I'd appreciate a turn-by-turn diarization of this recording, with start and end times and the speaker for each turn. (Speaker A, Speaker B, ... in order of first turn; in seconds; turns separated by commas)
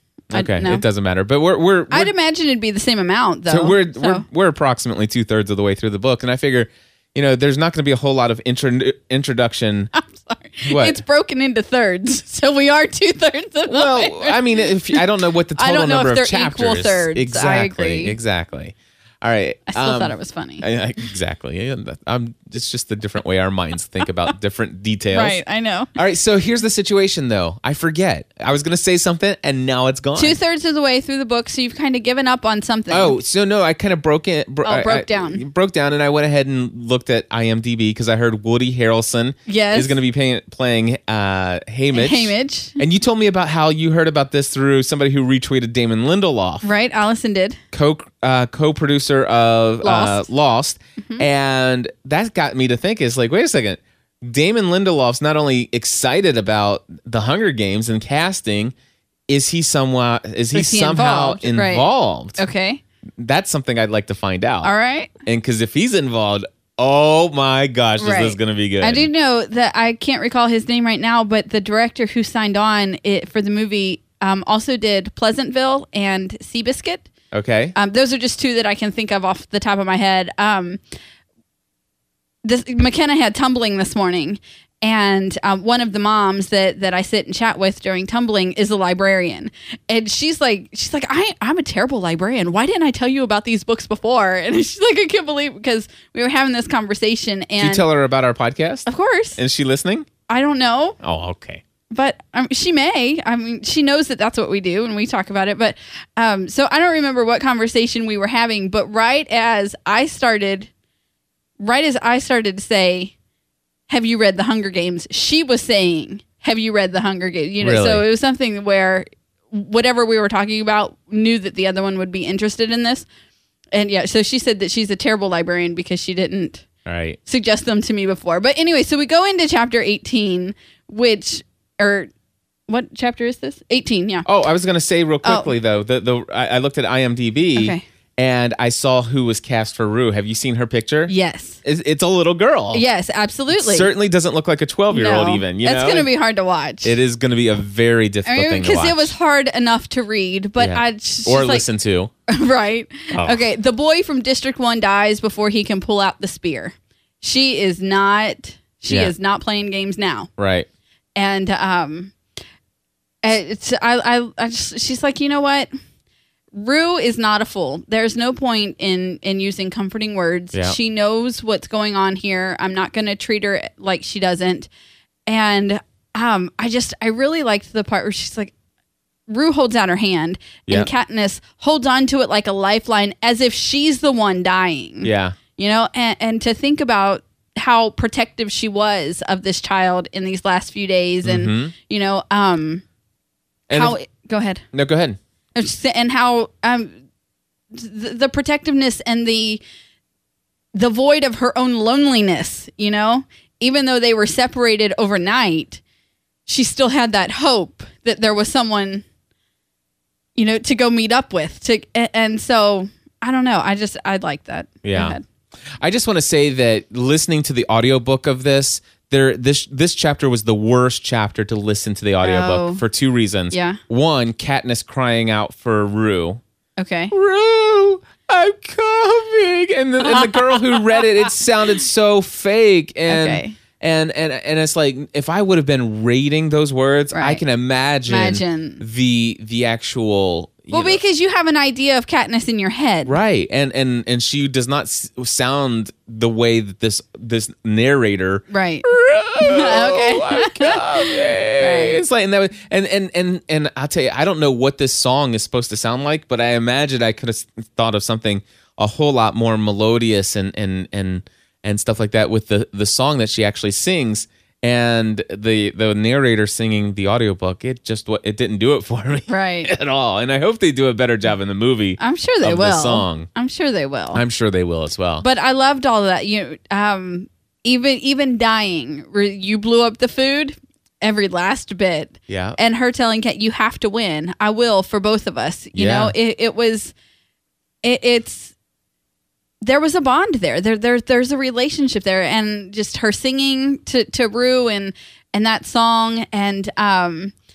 Speaker A: 0.3-0.8, Speaker B: 0.3-2.1, Speaker A: 1.9-4.2, Speaker B: 3.5-9.9, Speaker A: 9.9-15.0, Speaker B: 10.6-11.0, Speaker B: 13.7-25.4, Speaker A: 15.6-18.1, Speaker A: 19.7-20.6, Speaker A: 25.1-25.9, Speaker B: 25.9-30.4, Speaker A: 30.1-33.2, Speaker B: 32.9-46.6, Speaker A: 34.6-35.4, Speaker A: 39.5-39.9, Speaker A: 41.9-42.8, Speaker A: 46.6-47.6, Speaker B: 47.7-58.7, Speaker A: 49.8-50.3, Speaker B: 59.3-62.4, Speaker A: 60.5-61.9, Speaker A: 62.4-62.8, Speaker B: 63.2-64.7, Speaker A: 64.6-65.1, Speaker B: 65.2-69.1, Speaker A: 68.0-77.1, Speaker B: 77.3-77.7, Speaker A: 77.8-80.8, Speaker A: 82.4-97.8, Speaker B: 97.6-100.1, Speaker A: 98.8-99.4, Speaker A: 100.3-101.0, Speaker B: 101.0-101.6, Speaker A: 101.9-110.7, Speaker A: 111.6-113.1, Speaker A: 113.9-123.1, Speaker B: 117.6-118.0, Speaker A: 123.7-126.7, Speaker B: 126.8-127.2, Speaker A: 127.2-132.1, Speaker A: 132.7-134.2, Speaker B: 134.2-142.8, Speaker A: 135.2-135.5, Speaker A: 137.6-137.8, Speaker A: 141.1-141.6, Speaker A: 142.7-143.9, Speaker B: 143.5-146.1, Speaker A: 144.9-146.9, Speaker B: 146.8-149.1, Speaker A: 148.2-151.6, Speaker B: 150.6-152.1, Speaker A: 152.3-160.3, Speaker B: 153.1-153.4, Speaker B: 158.9-159.1, Speaker B: 160.4-160.7, Speaker A: 161.2-162.1, Speaker A: 163.2-165.7, Speaker A: 166.5-174.7, Speaker A: 175.3-178.5, Speaker A: 179.3-192.8, Speaker B: 185.0-185.4, Speaker B: 191.2-191.7, Speaker B: 193.7-193.9, Speaker A: 193.7-194.6, Speaker B: 194.7-195.2, Speaker A: 195.5-196.9, Speaker A: 197.7-199.6, Speaker A: 200.7-205.8, Speaker A: 206.5-209.0, Speaker A: 210.3-215.2, Speaker B: 214.8-215.2, Speaker B: 215.8-226.4, Speaker A: 222.2-222.8, Speaker A: 223.5-223.8, Speaker A: 226.8-227.1, Speaker B: 227.1-241.0, Speaker A: 230.0-231.0, Speaker A: 233.1-233.6, Speaker A: 237.1-237.4, Speaker A: 238.1-238.8, Speaker A: 240.7-243.1, Speaker B: 243.0-273.3, Speaker A: 248.5-248.8, Speaker A: 249.4-252.0, Speaker A: 269.3-269.7, Speaker A: 272.0-274.2, Speaker B: 274.1-275.2, Speaker A: 275.2-286.9, Speaker B: 282.3-282.6, Speaker B: 285.7-286.1, Speaker A: 287.8-288.5, Speaker A: 289.6-297.3